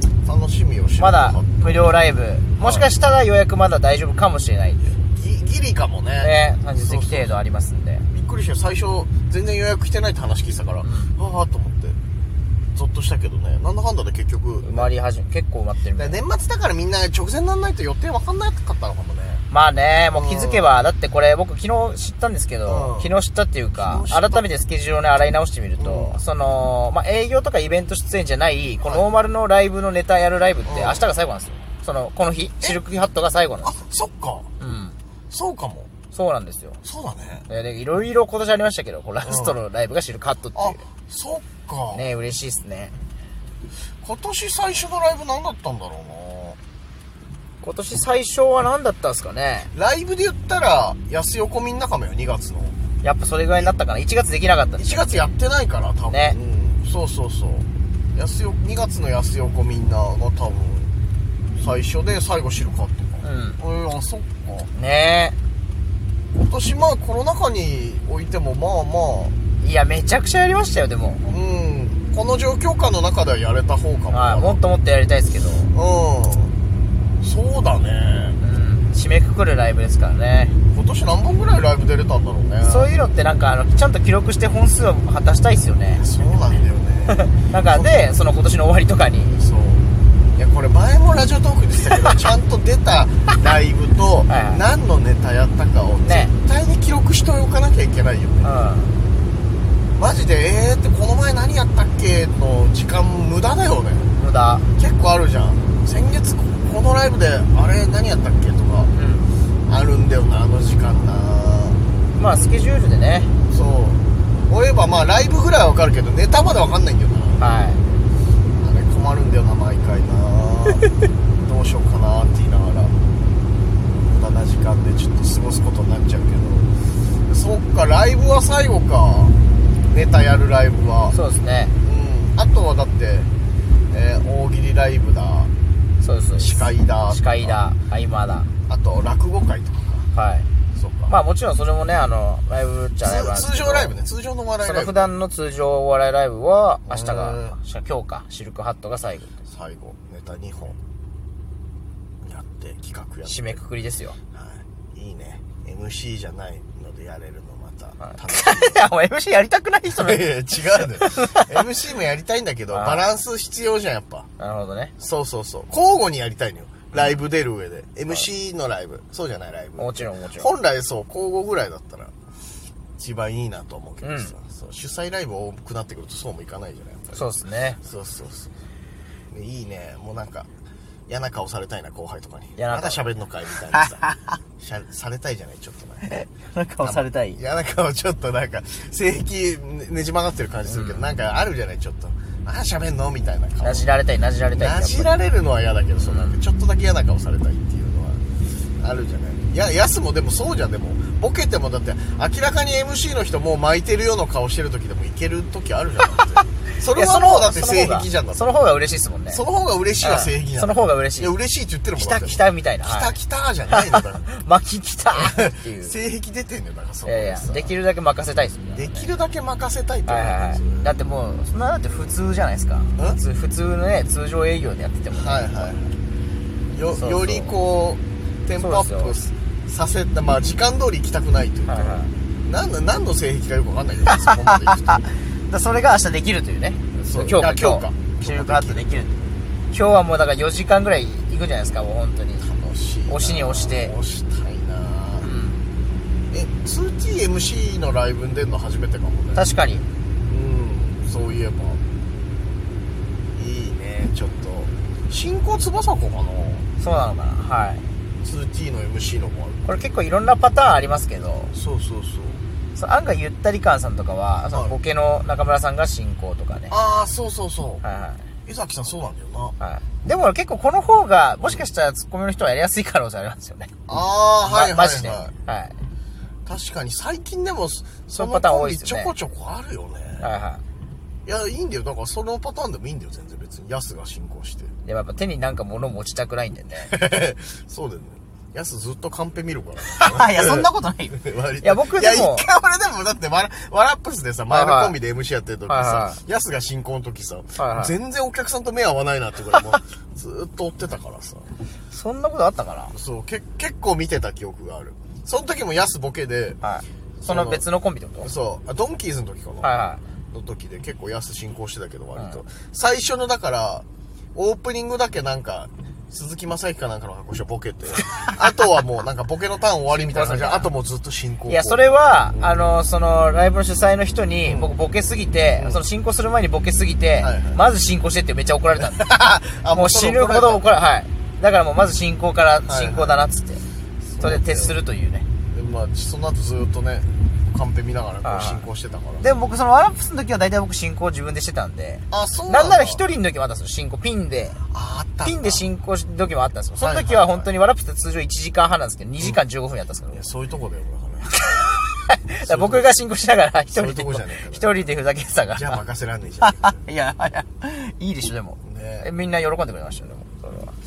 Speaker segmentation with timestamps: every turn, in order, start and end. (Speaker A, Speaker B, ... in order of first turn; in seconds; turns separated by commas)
Speaker A: 0.2-1.9, Speaker B: 1.0-4.8, Speaker A: 2.6-2.9, Speaker A: 4.8-7.4, Speaker B: 6.2-8.1, Speaker A: 8.1-12.0, Speaker B: 10.8-11.1, Speaker A: 12.8-14.9, Speaker B: 14.6-16.2, Speaker A: 16.0-19.4, Speaker B: 19.5-33.8, Speaker A: 20.1-20.7, Speaker A: 22.7-23.1, Speaker A: 23.7-24.5, Speaker A: 25.8-26.2, Speaker A: 30.6-31.1, Speaker A: 32.6-33.1, Speaker A: 33.6-34.5, Speaker B: 34.6-35.0, Speaker A: 35.3-35.9, Speaker B: 36.1-36.8, Speaker A: 36.8-37.5, Speaker B: 37.5-40.8, Speaker A: 39.2-39.6, Speaker A: 40.5-42.1, Speaker B: 41.9-43.0, Speaker A: 44.0-46.6, Speaker B: 47.6-49.7, Speaker A: 49.7-52.8, Speaker B: 53.0-55.3, Speaker A: 54.8-60.9, Speaker B: 56.1-56.4, Speaker A: 61.5-64.7, Speaker B: 63.2-63.6, Speaker B: 64.8-65.4, Speaker A: 66.3-69.4, Speaker B: 69.6-71.3, Speaker A: 71.3-74.6, Speaker B: 74.1-75.7, Speaker A: 75.7-76.5, Speaker A: 77.2-78.4, Speaker B: 78.4-80.6, Speaker A: 80.7-82.9, Speaker B: 82.6-86.0, Speaker A: 86.0-88.1, Speaker B: 87.1-89.4, Speaker A: 89.3-98.5, Speaker B: 94.3-94.6, Speaker B: 96.0-96.3, Speaker B: 98.4-99.0, Speaker A: 100.0-104.1, Speaker B: 104.2-104.7, Speaker A: 104.8-108.9, Speaker B: 108.9-109.3, Speaker A: 109.7-111.8, Speaker B: 112.2-113.3, Speaker A: 113.5-117.4, Speaker B: 117.4-117.8, Speaker A: 118.6-123.0, Speaker A: 123.8-126.7, Speaker A: 127.2-129.4, Speaker A: 129.9-131.2, Speaker B: 131.1-131.8, Speaker A: 131.8-133.3, Speaker A: 133.9-135.5, Speaker B: 136.0-138.5, Speaker A: 136.4-137.6, Speaker A: 138.7-140.1, Speaker B: 140.1-140.5, Speaker A: 140.7-141.2, Speaker B: 141.1-144.0, Speaker A: 143.0-145.1, Speaker B: 144.6-149.3, Speaker A: 146.9-147.6, Speaker A: 149.5-150.8, Speaker A: 152.2-153.6, Speaker B: 153.2-154.2, Speaker A: 154.3-158.8, Speaker B: 158.0-161.5, Speaker A: 159.9-164.3, Speaker B: 162.7-163.1, Speaker B: 164.4-164.9, Speaker A: 165.0-172.1, Speaker B: 169.8-170.5, Speaker A: 173.0-177.3, Speaker B: 174.0-174.3, Speaker B: 177.1-177.8, Speaker A: 177.8-178.5, Speaker A: 179.3-180.5, Speaker A: 181.1-184.0, Speaker B: 182.6-183.1, Speaker B: 183.7-184.2, Speaker A: 184.6-186.2, Speaker B: 186.0-187.4, Speaker A: 186.8-193.9, Speaker B: 190.7-191.1, Speaker B: 193.6-195.1, Speaker A: 194.5-198.2, Speaker B: 196.0-196.4, Speaker A: 198.8-208.6, Speaker B: 206.9-209.4, Speaker A: 209.3-214.3, Speaker B: 210.0-211.3, Speaker B: 212.0-213.2, Speaker B: 213.7-215.9, Speaker A: 215.1-217.7, Speaker B: 217.1-219.1, Speaker A: 218.8-220.9, Speaker B: 220.1-225.7, Speaker A: 225.1-226.0, Speaker A: 226.7-235.1, Speaker B: 227.0-227.5, Speaker B: 228.6-229.1, Speaker B: 231.7-232.1, Speaker B: 234.1-239.1, Speaker A: 237.0-239.3, Speaker B: 239.7-242.4, Speaker A: 242.4-245.3, Speaker B: 243.1-243.9, Speaker B: 245.2-245.6, Speaker A: 246.3-249.5, Speaker B: 249.3-249.9, Speaker A: 250.3-251.8, Speaker A: 253.3-256.7, Speaker B: 256.8-257.8, Speaker A: 258.2-259.7, Speaker B: 259.6-261.5, Speaker A: 261.5-262.4, Speaker B: 262.8-266.8, Speaker A: 266.7-267.8, Speaker B: 267.8-268.2, Speaker A: 268.5-269.6, Speaker B: 269.6-273.7, Speaker A: 273.9-275.3, Speaker B: 274.4-275.8, Speaker A: 276.5-280.3, Speaker B: 278.1-279.1, Speaker B: 280.2-280.6, Speaker A: 281.3-284.7, Speaker B: 284.9-286.9, Speaker A: 286.8-301.5, Speaker B: 289.8-292.5, Speaker B: 294.5-295.0, Speaker B: 295.7-296.2, Speaker B: 297.6-297.9, Speaker B: 301.9-302.9, Speaker A: 302.9-306.6, Speaker B: 306.6-308.3, Speaker A: 307.2-307.6, Speaker A: 308.2-322.8, Speaker B: 309.6-310.0, Speaker B: 312.2-312.4, Speaker B: 319.9-320.7, Speaker B: 321.5-329.1, Speaker A: 324.4-324.7, Speaker A: 325.6-325.8, Speaker A: 327.2-327.6, Speaker A: 328.8-330.6, Speaker B: 329.7-333.6, Speaker A: 332.7-333.2, Speaker A: 334.1-334.8, Speaker B: 334.2-335.3, Speaker A: 335.5-339.4, Speaker B: 338.2-338.6, Speaker B: 339.2-344.6, Speaker A: 342.1-343.0, Speaker A: 344.7-345.7, Speaker B: 345.2-350.2, Speaker A: 346.8-347.5, Speaker A: 350.1-351.7, Speaker B: 351.3-355.8, Speaker A: 352.4-352.9, Speaker A: 353.7-354.8, Speaker A: 355.5-356.8, Speaker B: 356.4-360.7, Speaker A: 358.6-359.1